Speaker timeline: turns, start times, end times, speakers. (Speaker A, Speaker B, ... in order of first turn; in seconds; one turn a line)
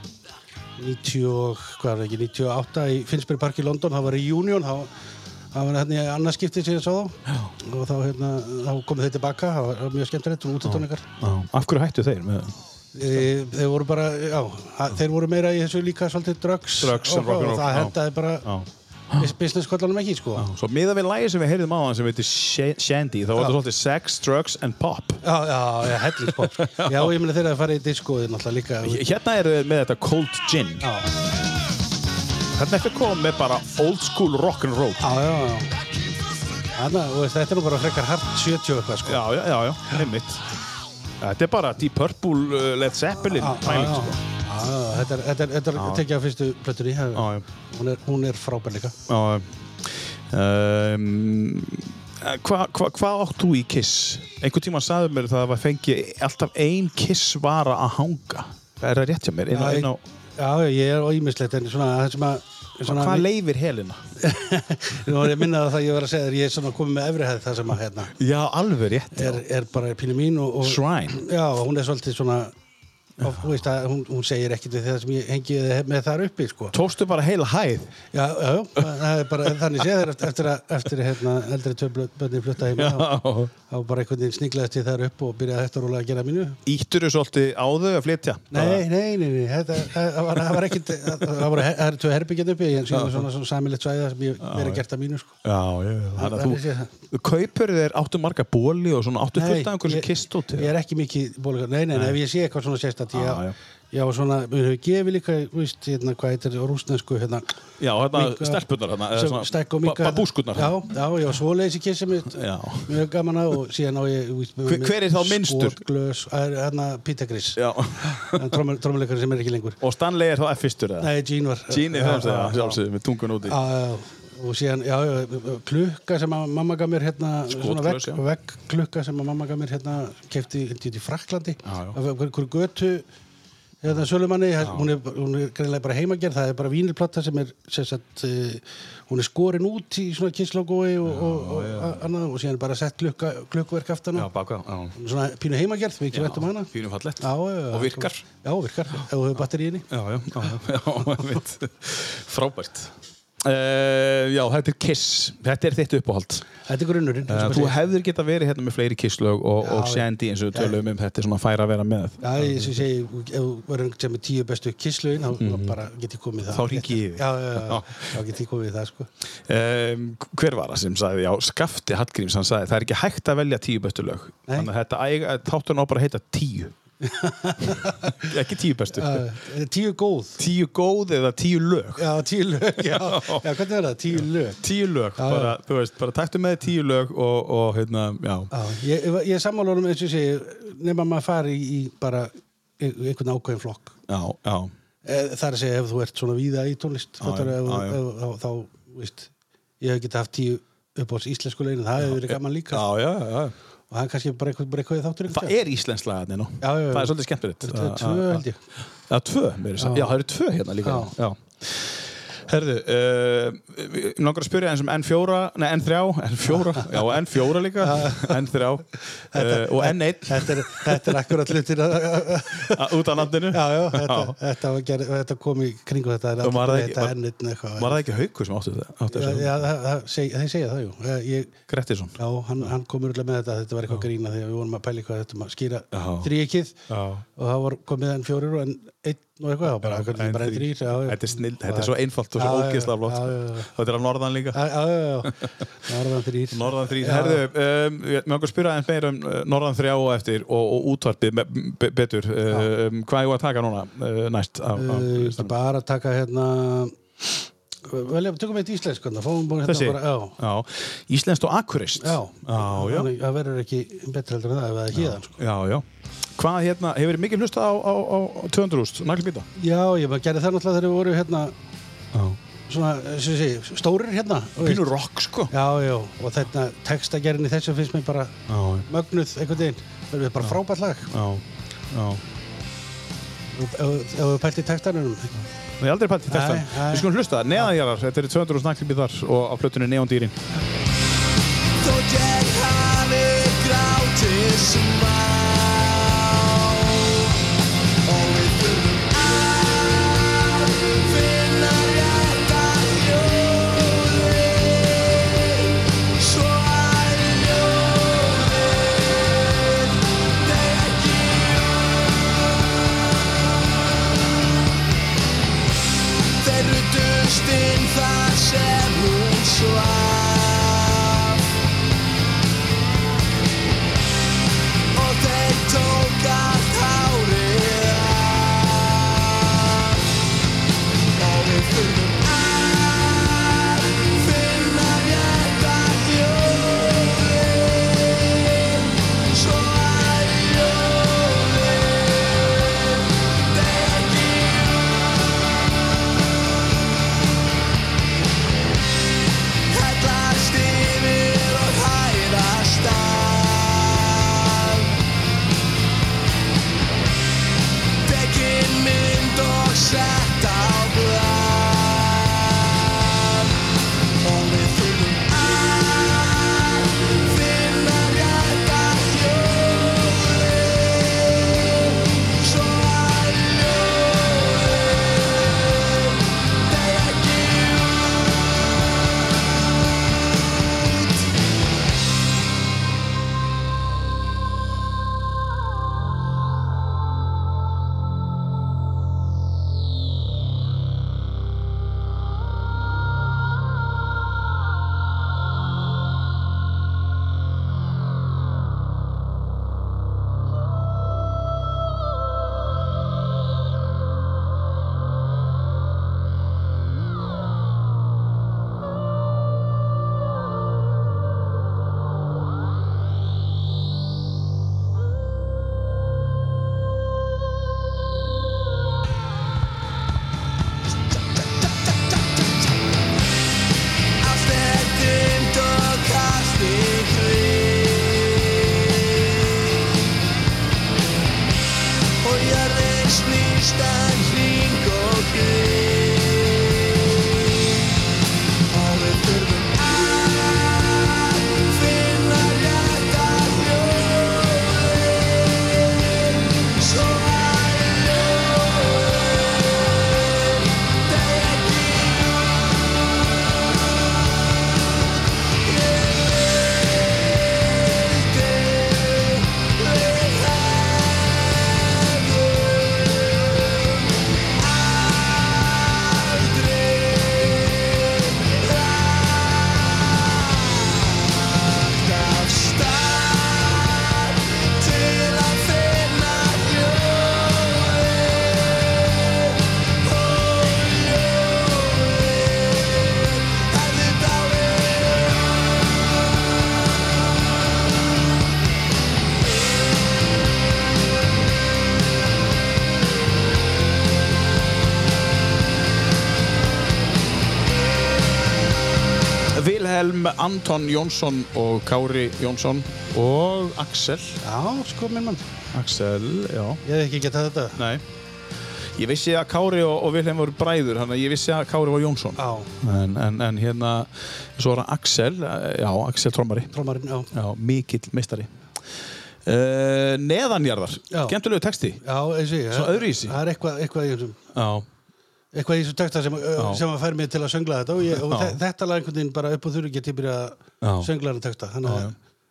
Speaker A: 0.8-4.9
Speaker A: 5.5-11.1
Speaker B: 10.6-13.3
Speaker A: 12.9-18.5
Speaker B: 16.8-19.3
Speaker A: 19.2-20.5
Speaker B: 20.4-25.2
Speaker A: 25.2-29.0
Speaker B: 26.1-27.1
Speaker B: 28.8-30.8
Speaker A: 30.8-31.1
Speaker B: 32.5-35.1
Speaker A: 35.0-35.7
Speaker A: 36.8-39.2
Speaker B: 39.0-40.4
Speaker B: 41.2-44.2
Speaker A: 43.3-48.9
Speaker B: 45.7-46.0
Speaker B: 47.1-47.4
Speaker B: 49.1-60.0
Speaker A: 59.5-63.3
Speaker B: 62.8-64.0
Speaker A: 64.2-68.1
Speaker B: 68.2-69.4
Speaker A: 69.1-72.5
Speaker B: 70.6-71.2
Speaker A: 73.2-76.7
Speaker B: 76.7-77.9
Speaker A: 78.1-86.6
Speaker B: 82.7-83.5
Speaker B: 86.7-88.8
Speaker A: 88.5-95.3
Speaker B: 90.5-91.5
Speaker B: 92.9-93.3
Speaker B: 94.4-94.8
Speaker B: 95.4-100.7
Speaker A: 96.2-96.9
Speaker A: 99.3-107.5
Speaker B: 103.1-103.5
Speaker B: 107.8-110.8
Speaker A: 108.1-108.6
Speaker A: 109.1-119.8
Speaker B: 112.3-113.0
Speaker B: 114.7-115.8
Speaker B: 117.5-118.6
Speaker B: 119.8-121.1
Speaker A: 121.0-122.8
Speaker B: 121.7-123.6
Speaker A: 123.4-133.1
Speaker B: 127.5-128.2
Speaker B: 131.6-132.0
Speaker A: 133.8-144.3
Speaker B: 134.6-134.9
Speaker B: 141.0-142.0
Speaker B: 144.1-144.9
Speaker A: 144.9-149.8
Speaker B: 146.1-148.2
Speaker B: 149.9-156.5
Speaker A: 156.6-157.8
Speaker B: 157.3-162.8
Speaker A: 159.6-160.8
Speaker A: 162.2-169.1
Speaker B: 165.4-165.8
Speaker B: 166.4-168.2
Speaker B: 169.5-176.7
Speaker A: 177.0-178.3
Speaker B: 177.7-179.3
Speaker A: 178.9-180.4
Speaker B: 180.4-182.1
Speaker A: 182.0-184.6
Speaker B: 182.7-183.5
Speaker B: 184.1-188.5
Speaker A: 185.2-185.5
Speaker A: 188.5-193.9
Speaker B: 194.1-194.7
Speaker A: 195.0-202.8
Speaker B: 197.2-198.0
Speaker B: 202.0-203.5
Speaker A: 203.9-205.6
Speaker B: 205.3-208.4
Speaker A: 206.6-208.6
Speaker B: 209.1-221.3
Speaker A: 209.8-210.1
Speaker A: 210.8-211.1
Speaker A: 216.5-217.1
Speaker A: 217.8-218.4
Speaker A: 219.3-228.0
Speaker B: 222.6-224.3
Speaker B: 226.4-227.1
Speaker B: 227.8-229.6
Speaker A: 229.1-231.5
Speaker B: 231.7-232.7
Speaker A: 232.2-236.7
Speaker B: 235.9-236.3
Speaker B: 236.9-237.2
Speaker A: 237.3-243.7
Speaker B: 239.7-244.6
Speaker A: 244.5-247.4
Speaker B: 245.2-245.5
Speaker B: 246.5-255.5
Speaker A: 254.8-257.0
Speaker A: 257.8-260.4
Speaker B: 259.6-263.1
Speaker A: 262.0-265.4
Speaker B: 264.9-265.8
Speaker B: 266.4-269.5
Speaker A: 269.6-271.5
Speaker B: 272.1-272.4
Speaker A: 272.7-274.9
Speaker B: 274.6-275.5
Speaker A: 275.5-281.1
Speaker B: 278.5-278.9
Speaker B: 281.1-282.2
Speaker A: 283.5-285.4
Speaker B: 285.8-290.4
Speaker A: 286.3-287.1
Speaker C: 292.0-296.2
Speaker C: 301.3-303.9
Speaker C: 306.5-306.8
Speaker C: 308.1-308.4
Speaker C: 310.6-311.2
Speaker C: 316.4-319.2
Speaker C: 319.8-320.8
Speaker C: 325.1-326.2
Speaker C: 326.9-327.7
Speaker C: 331.4-336.6
Speaker C: 339.4-342.2
Speaker C: 343.5-343.8
Speaker C: 351.3-352.3
Speaker C: 367.5-368.7
Speaker C: 376.8-377.4
Speaker C: 424.4-424.7
Speaker C: 426.7-427.1
Speaker C: 432.2-433.2
Speaker C: 434.7-435.3
Speaker C: 441.6-442.5
Speaker C: 451.2-452.1
Speaker C: 466.5-467.2
Speaker C: 468.4-469.2
Speaker C: 472.2-474.0
Speaker C: 474.7-478.6
Speaker C: 480.1-485.2
Speaker B: 499.5-504.4
Speaker A: 504.4-505.4
Speaker B: 505.7-506.8
Speaker A: 506.8-507.8
Speaker B: 507.8-508.0
Speaker B: 508.9-516.7
Speaker A: 512.4-512.7
Speaker A: 516.7-517.3
Speaker B: 517.3-518.5
Speaker B: 519.4-522.0
Speaker A: 521.1-521.4
Speaker A: 522.0-524.4
Speaker B: 522.7-523.4
Speaker B: 524.5-524.9
Speaker A: 525.5-532.1
Speaker B: 526.6-526.8
Speaker B: 528.1-528.6
Speaker B: 530.8-531.1
Speaker B: 531.8-532.1